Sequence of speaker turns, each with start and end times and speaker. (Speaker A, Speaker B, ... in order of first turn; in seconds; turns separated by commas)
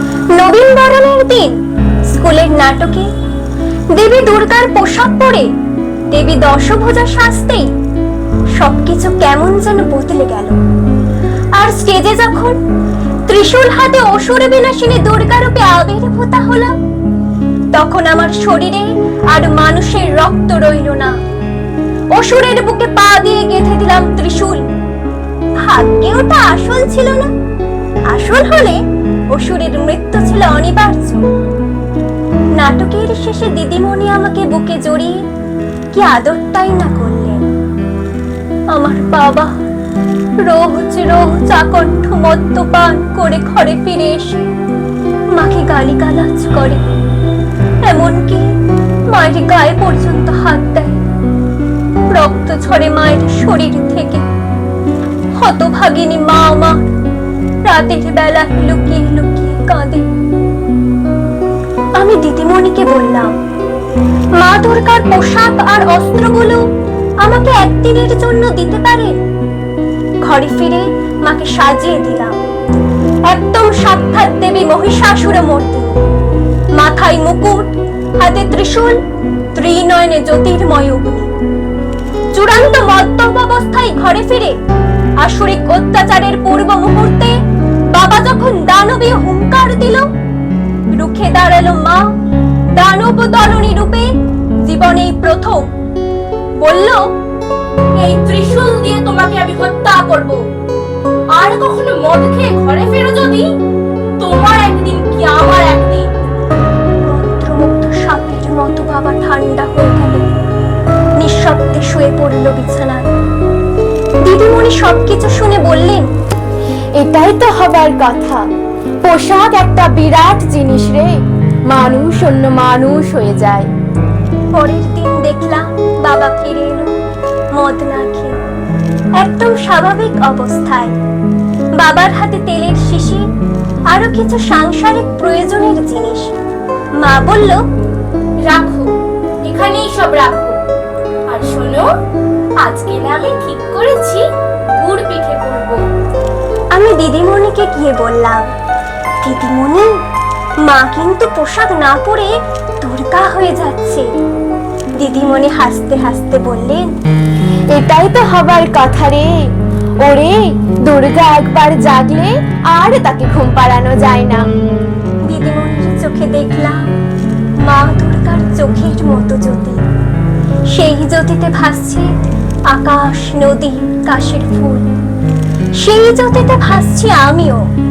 Speaker A: 0.3-3.1, Speaker A: 3.9-5.5, Speaker A: 6.1-7.7, Speaker A: 8.6-10.6, Speaker A: 11.6-12.6, Speaker A: 13.3-16.7, Speaker A: 17.7-21.1, Speaker A: 22.1-24.6, Speaker A: 25.6-27.3, Speaker A: 28.1-31.3, Speaker A: 32.6-35.2, Speaker A: 35.9-37.4, Speaker A: 38.7-39.5, Speaker A: 40.4-44.5, Speaker A: 45.3-46.8, Speaker A: 47.8-48.5, Speaker A: 49.1-51.0, Speaker A: 52.1-54.2, Speaker A: 55.4-56.9, Speaker A: 57.6-60.1, Speaker A: 62.0-63.4, Speaker A: 64.3-66.6, Speaker A: 67.2-69.2, Speaker A: 70.2-72.4, Speaker A: 73.2-75.9, Speaker A: 76.7-79.0, Speaker A: 79.5-81.3, Speaker A: 82.3-84.6, Speaker A: 85.2-87.4, Speaker A: 87.9-90.1, Speaker A: 90.9-92.1, Speaker A: 92.7-94.1, Speaker A: 94.6-95.7, Speaker A: 96.6-97.0, Speaker B: 98.0-100.4, Speaker B: 101.3-103.5, Speaker B: 104.2-106.1, Speaker A: 107.0-110.3, Speaker A: 111.2-113.1, Speaker A: 114.2-116.1, Speaker C: 117.0-118.4, Speaker C: 119.0-123.7, Speaker A: 124.5-127.0, Speaker A: 127.5-128.4, Speaker A: 129.2-130.9, Speaker A: 131.8-133.2, Speaker A: 133.9-136.3, Speaker A: 137.0-137.6, Speaker B: 138.4-138.9, Speaker B: 139.4-140.6, Speaker B: 141.3-141.9, Speaker B: 142.6-145.9, Speaker A: 146.7-148.5, Speaker A: 149.2-150.0, Speaker A: 150.6-154.1, Speaker A: 155.0-156.9, Speaker C: 157.7-159.4, Speaker C: 160.0-164.4, Speaker A: 165.2-166.8, Speaker A: 167.6-169.8, Speaker A: 170.7-172.1, Speaker A: 172.7-174.9, Speaker A: 175.8-177.7